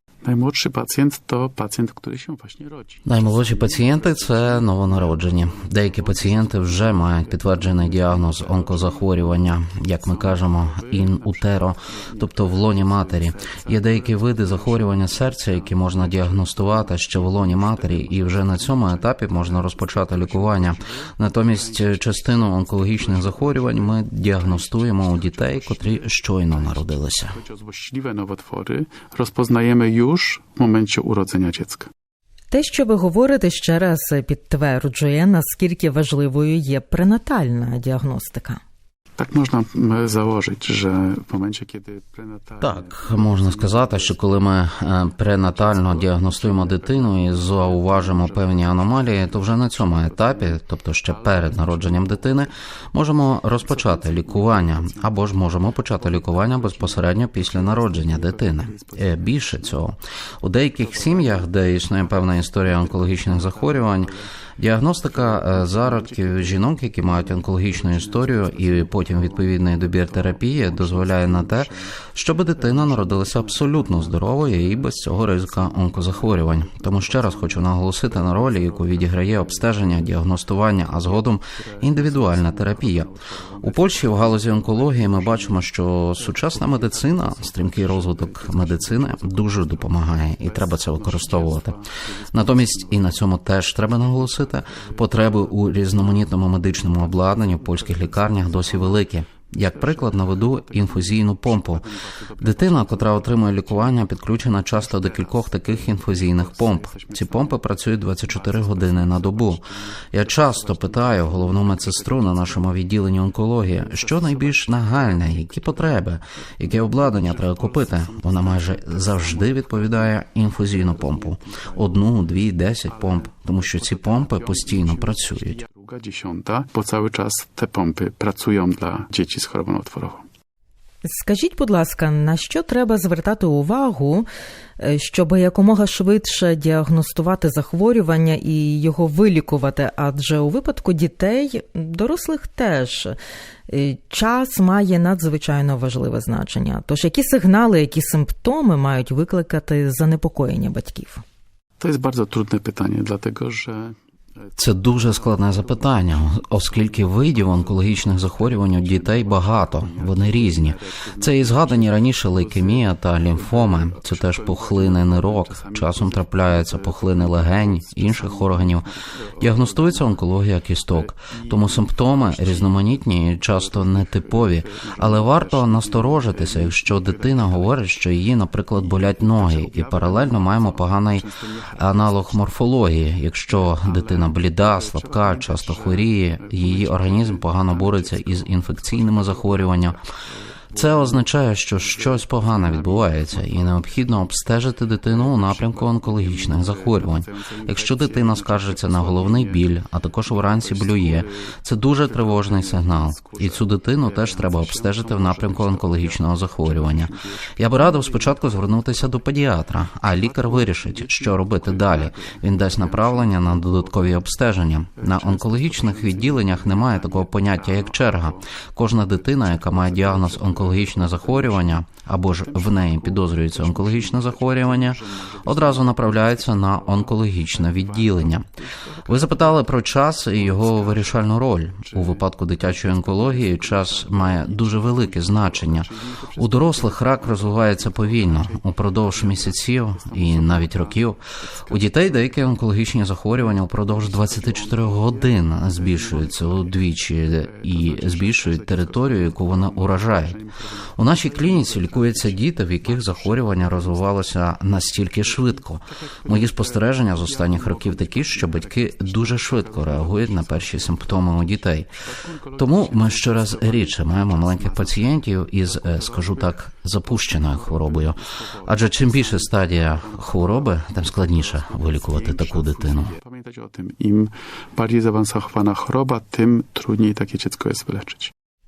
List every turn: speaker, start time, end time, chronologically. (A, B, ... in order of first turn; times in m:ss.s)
0:00.2-0:31.9 A
0:03.1-0:27.4 B
0:32.5-0:38.6 C
0:39.2-0:44.5 A
0:42.6-1:23.1 B
0:45.2-0:52.5 A
0:53.3-0:59.8 A
1:00.8-1:04.3 A
1:05.0-1:12.0 A
1:12.6-1:47.7 A
1:23.6-1:31.8 B
1:32.3-1:41.9 B
1:42.4-2:05.6 B
1:48.2-1:52.8 A
1:53.6-2:02.2 A
2:02.9-2:10.3 A
2:11.0-2:14.3 C
2:14.8-2:23.2 C
2:23.7-2:31.2 C
2:31.8-2:50.2 A
2:34.6-2:48.9 B
2:49.4-3:10.0 B
2:50.9-2:57.9 A
2:58.7-3:02.4 A
3:03.5-3:14.0 A
3:10.8-3:48.5 B
3:15.0-3:19.7 A
3:20.3-3:29.0 A
3:30.0-3:34.2 A
3:35.0-4:02.5 A
3:49.1-4:10.4 B
4:03.3-4:14.2 A
4:11.0-4:21.9 B
4:15.2-4:38.3 A
4:22.6-4:33.2 B